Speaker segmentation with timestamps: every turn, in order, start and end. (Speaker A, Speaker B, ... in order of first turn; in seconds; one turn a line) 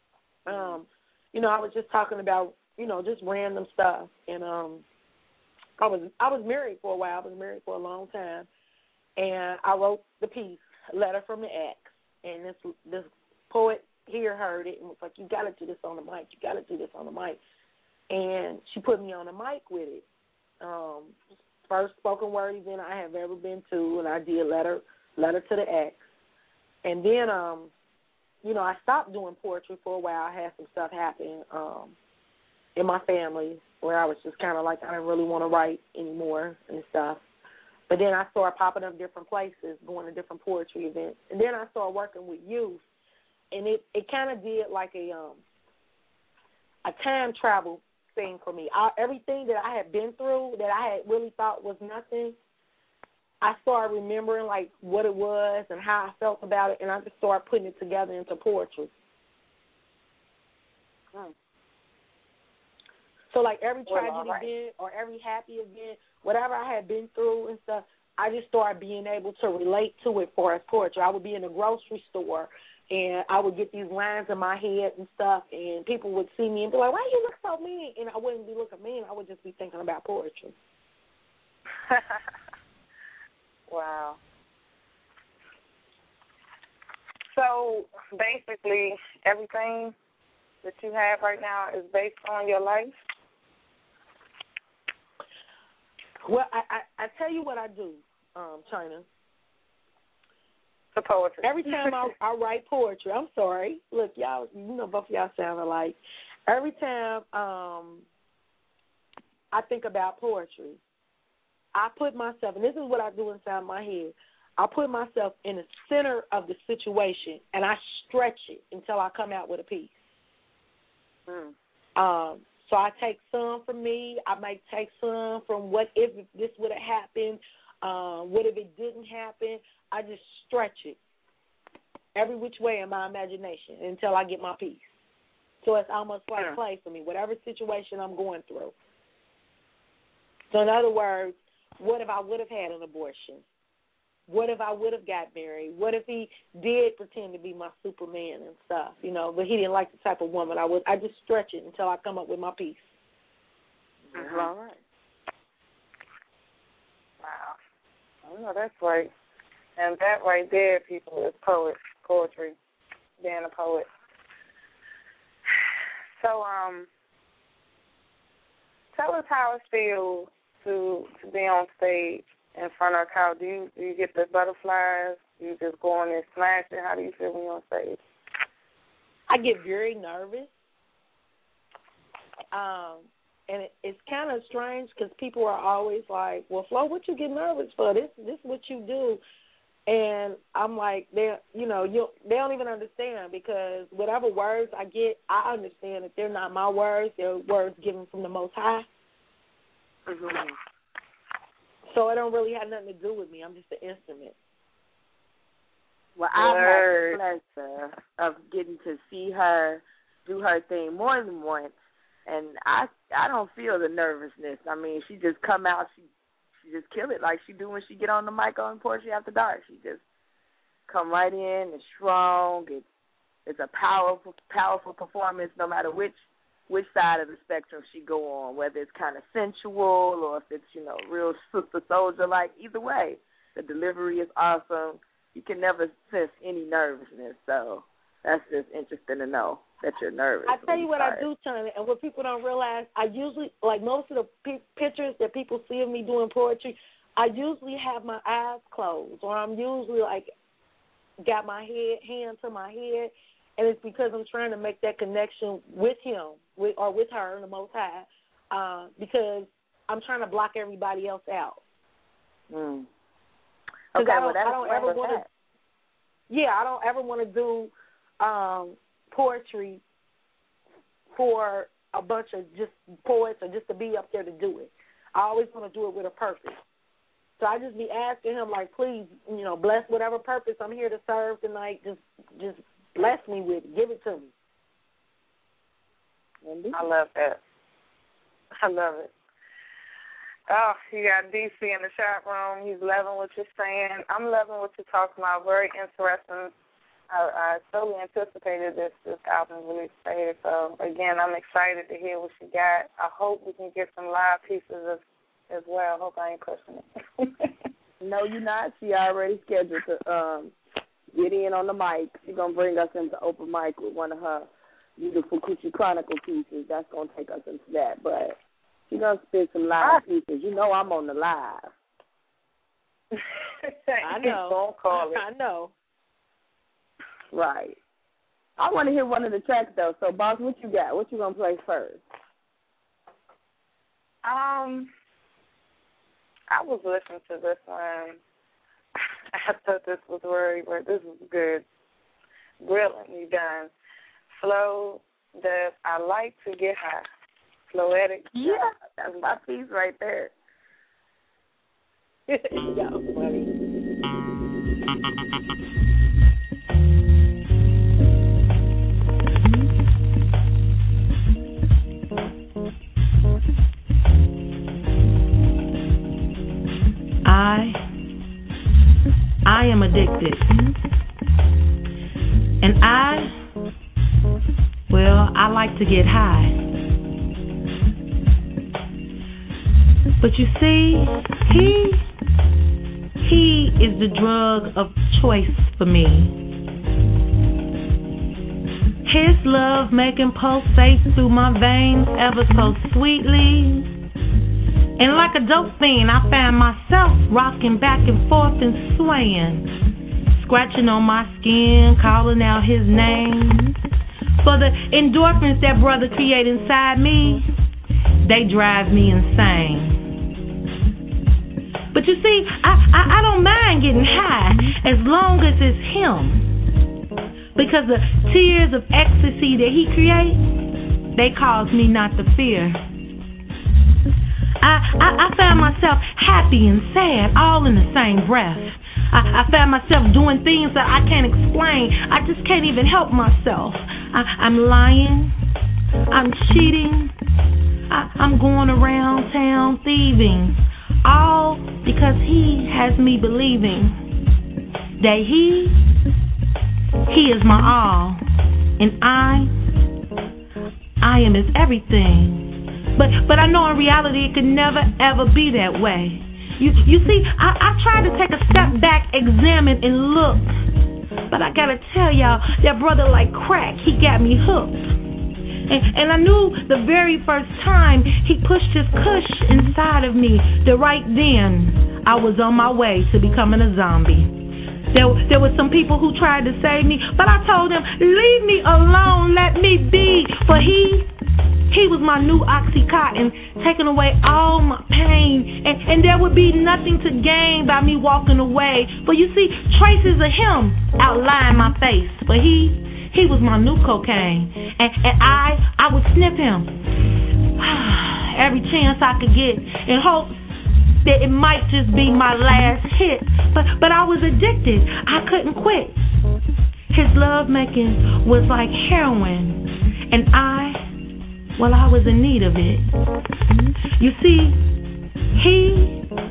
Speaker A: 0.5-4.8
Speaker B: 0.5-0.8
Speaker A: 5.8-8.5
Speaker A: 9.2-17.4
Speaker A: 18.1-20.0
Speaker A: 20.6-26.0
Speaker A: 26.8-27.7
Speaker A: 28.4-31.9
Speaker A: 32.8-37.2
Speaker A: 37.9-42.8
Speaker A: 43.5-45.4
Speaker A: 46.8-52.4
Speaker A: 53.4-58.9
Speaker A: 63.3-80.5
Speaker B: 63.9-64.5
Speaker B: 81.9-82.2
Speaker B: 83.7-84.2
Speaker B: 87.3-89.9
Speaker B: 90.6-92.9
Speaker A: 96.2-99.0
Speaker B: 100.9-102.0
Speaker A: 101.4-108.0
Speaker A: 109.5-110.8
Speaker A: 111.7-120.0
Speaker B: 121.3-121.5
Speaker A: 122.0-131.0
Speaker A: 132.1-134.9
Speaker A: 135.6-138.7
Speaker A: 140.5-143.4
Speaker A: 144.3-152.9
Speaker C: 154.1-154.8
Speaker B: 154.1-154.5
Speaker B: 157.2-157.6
Speaker B: 158.2-159.1
Speaker B: 159.8-162.5
Speaker B: 163.2-163.9
Speaker B: 166.2-166.9
Speaker B: 168.9-178.0
Speaker A: 179.3-180.5
Speaker A: 182.5-189.2
Speaker A: 189.9-198.8
Speaker B: 200.1-200.4
Speaker A: 201.9-204.3
Speaker C: 206.2-211.7
Speaker B: 206.3-207.2
Speaker C: 212.2-216.0
Speaker C: 216.6-220.0
Speaker C: 220.9-222.8
Speaker C: 223.4-226.2
Speaker C: 226.7-241.2
Speaker A: 240.4-250.3
Speaker A: 251.2-261.6
Speaker C: 262.5-262.9
Speaker C: 263.9-265.2
Speaker A: 263.9-265.2
Speaker A: 266.3-269.8
Speaker A: 271.1-276.6
Speaker A: 277.4-284.3
Speaker C: 286.4-286.8
Speaker B: 286.7-287.4
Speaker B: 288.6-289.1
Speaker B: 290.5-296.5
Speaker B: 297.1-307.5
Speaker C: 308.0-310.5
Speaker C: 311.1-318.4
Speaker C: 318.9-321.7
Speaker B: 323.1-325.2
Speaker A: 324.0-325.7
Speaker C: 327.3-327.8
Speaker C: 328.6-332.0
Speaker B: 334.2-334.9
Speaker B: 336.5-338.2
Speaker B: 339.3-341.6
Speaker B: 342.6-343.7
Speaker B: 344.4-347.0
Speaker B: 347.7-349.3
Speaker C: 348.3-350.3
Speaker A: 352.3-353.5
Speaker D: 367.2-367.8
Speaker D: 369.4-370.5
Speaker D: 372.6-373.4
Speaker D: 374.9-376.6
Speaker D: 380.2-382.0
Speaker D: 383.2-386.4
Speaker D: 389.0-393.9
Speaker D: 395.0-399.7
Speaker D: 400.3-403.7
Speaker D: 404.4-407.4
Speaker D: 408.2-410.0
Speaker D: 411.9-416.5
Speaker D: 417.6-420.4
Speaker D: 421.1-422.8
Speaker D: 424.6-435.3
Speaker D: 436.1-437.1
Speaker D: 437.9-443.9
Speaker D: 445.0-445.8
Speaker D: 447.1-448.2
Speaker D: 448.8-449.5
Speaker D: 451.0-460.5
Speaker D: 461.3-464.9
Speaker D: 465.7-474.4
Speaker D: 474.9-481.1
Speaker D: 481.7-496.7
Speaker D: 497.6-500.4
Speaker D: 501.0-506.0
Speaker D: 506.9-510.9
Speaker D: 511.6-512.9
Speaker D: 513.9-514.6
Speaker D: 515.3-516.0